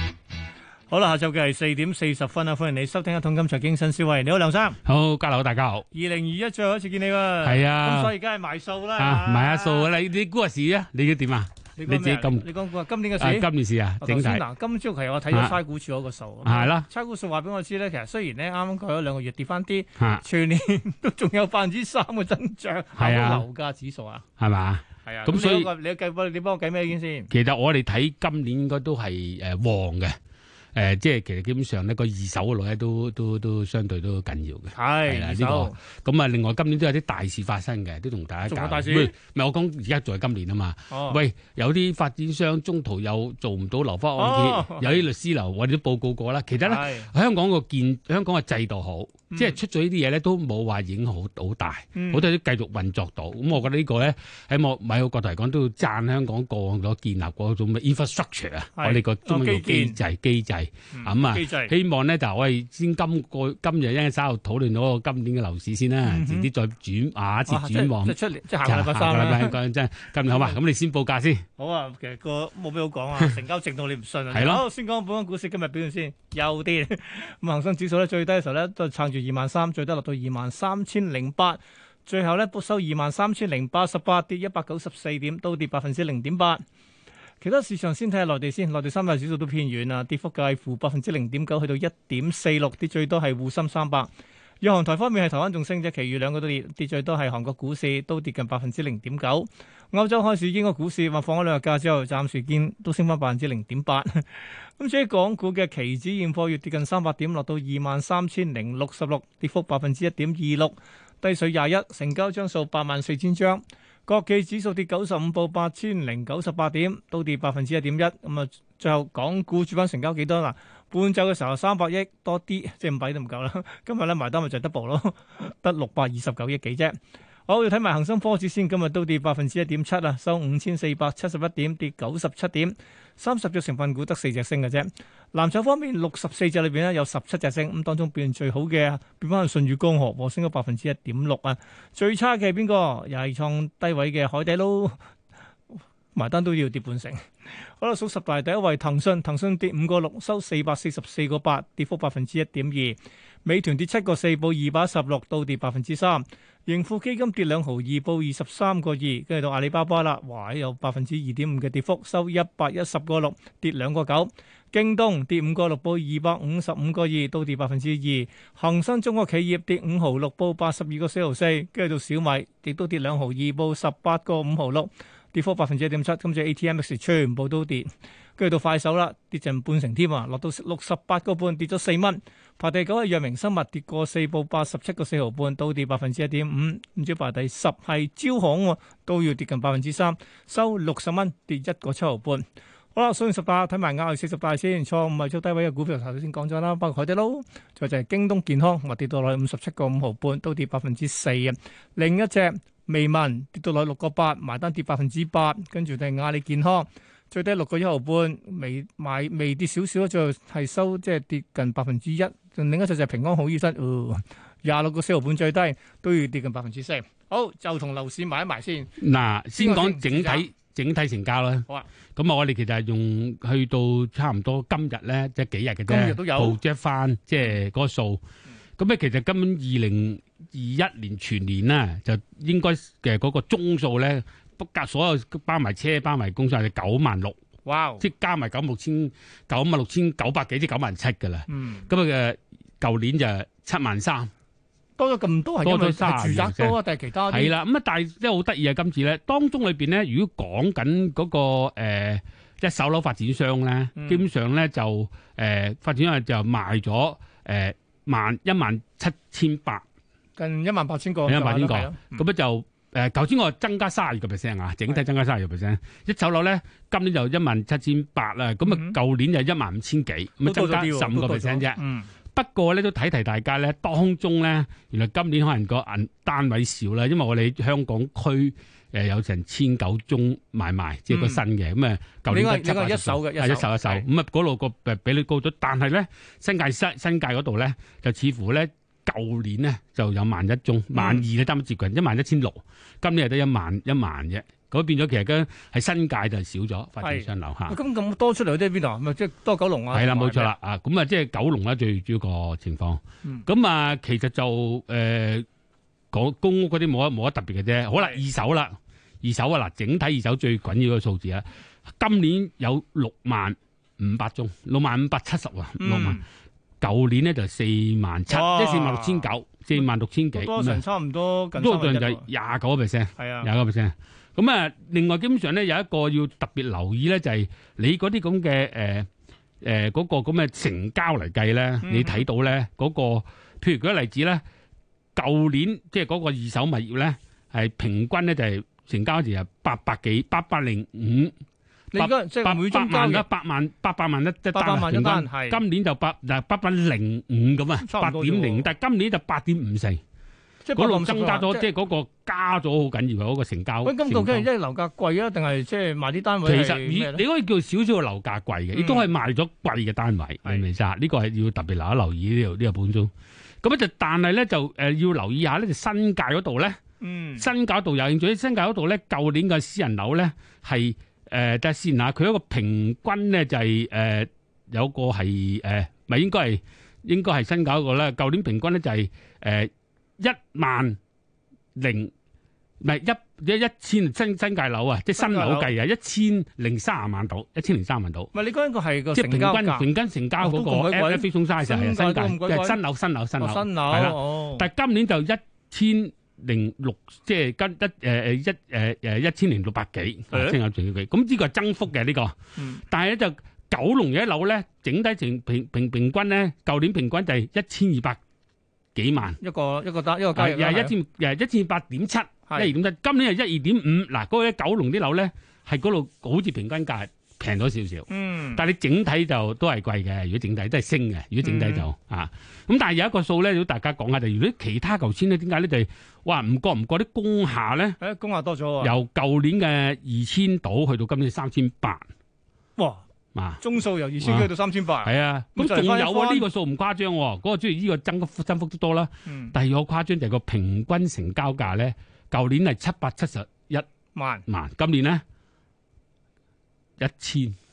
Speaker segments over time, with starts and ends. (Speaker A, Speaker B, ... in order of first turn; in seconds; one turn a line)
Speaker A: 0.9-4.8
Speaker B: 4.8-5.8
Speaker A: 5.9-9.9
Speaker B: 7.4-8.1
Speaker B: 9.0-12.5
Speaker A: 11.8-13.5
Speaker B: 13.2-14.4
Speaker A: 14.0-24.2
Speaker B: 15.3-15.6
Speaker B: 16.4-16.9
Speaker B: 20.0-20.2
Speaker B: 23.0-23.4
Speaker B: 24.4-25.7
Speaker A: 25.0-27.3
Speaker B: 27.3-30.1
Speaker B: 30.7-71.4
Speaker A: 34.7-35.8
Speaker A: 38.5-39.1
Speaker A: 40.9-41.2
Speaker A: 44.2-45.1
Speaker A: 46.6-47.1
Speaker A: 49.3-49.6
Speaker A: 51.9-52.2
Speaker A: 58.8-60.0
Speaker A: 60.9-61.7
Speaker A: 66.0-66.5
Speaker A: 67.5-69.5
Speaker A: 70.3-70.6
Speaker A: 71.6-86.6
Speaker B: 74.3-74.6
Speaker A: 87.4-94.1
Speaker A: 94.6-127.0
Speaker A: 127.5-145.0
Speaker A: 146.1-147.2
Speaker A: 147.8-218.9
Speaker B: 219.0-228.2
Speaker A: 219.6-220.4
Speaker A: 225.8-226.6
Speaker B: 228.8-237.3
Speaker A: 237.7-238.1
Speaker B: 238.0-244.3
Speaker A: 241.5-241.9
Speaker A: 245.0-247.5
Speaker B: 245.6-246.8
Speaker B: 247.3-259.8
Speaker A: 254.0-254.2
Speaker A: 260.4-262.2
Speaker B: 261.2-271.8
Speaker A: 268.6-268.9
Speaker A: 270.4-272.1
Speaker B: 272.3-297.8
Speaker A: 281.1-281.4
Speaker A: 282.3-284.1
Speaker A: 290.9-291.3
Speaker A: 297.0-300.5
Speaker B: 299.9-305.4
Speaker B: 306.1-316.2
Speaker A: 307.9-308.2
Speaker A: 315.8-316.2
Speaker B: 316.8-320.8
Speaker A: 318.3-322.2
Speaker B: 321.6-329.1
Speaker A: 323.2-323.5
Speaker B: 329.6-334.4
Speaker A: 331.8-332.2
Speaker B: 335.1-341.3
Speaker A: 341.9-343.2
Speaker B: 341.9-350.0
Speaker A: 344.5-345.6
Speaker A: 347.8-348.7
Speaker A: 350.6-351.7
Speaker B: 350.7-354.5
Speaker A: 353.8-357.2
Speaker B: 356.4-363.1
Speaker A: 358.7-359.1
Speaker B: 363.6-366.8
Speaker A: 367.0-367.5
Speaker B: 367.4-381.0
Speaker B: 381.8-382.1
Speaker B: 382.8-388.3
Speaker A: 385.1-385.7
Speaker A: 388.3-389.9
Speaker B: 389.1-402.3
Speaker A: 390.4-392.8
Speaker A: 393.4-394.7
Speaker A: 400.3-400.6
Speaker A: 402.6-402.8
Speaker B: 402.9-408.2
Speaker B: 408.9-409.4
Speaker A: 409.4-410.9
Speaker B: 410.3-428.0
Speaker A: 412.5-412.7
Speaker A: 418.1-418.6
Speaker A: 421.4-421.9
Speaker A: 428.0-428.9
Speaker B: 428.8-432.0
Speaker A: 432.8-433.0
Speaker B: 433.3-433.6
Speaker A: 433.6-436.4
Speaker B: 434.2-434.5
Speaker B: 435.0-443.9
Speaker A: 439.2-439.6
Speaker A: 444.1-444.4
Speaker B: 444.5-445.2
Speaker B: 447.0-447.6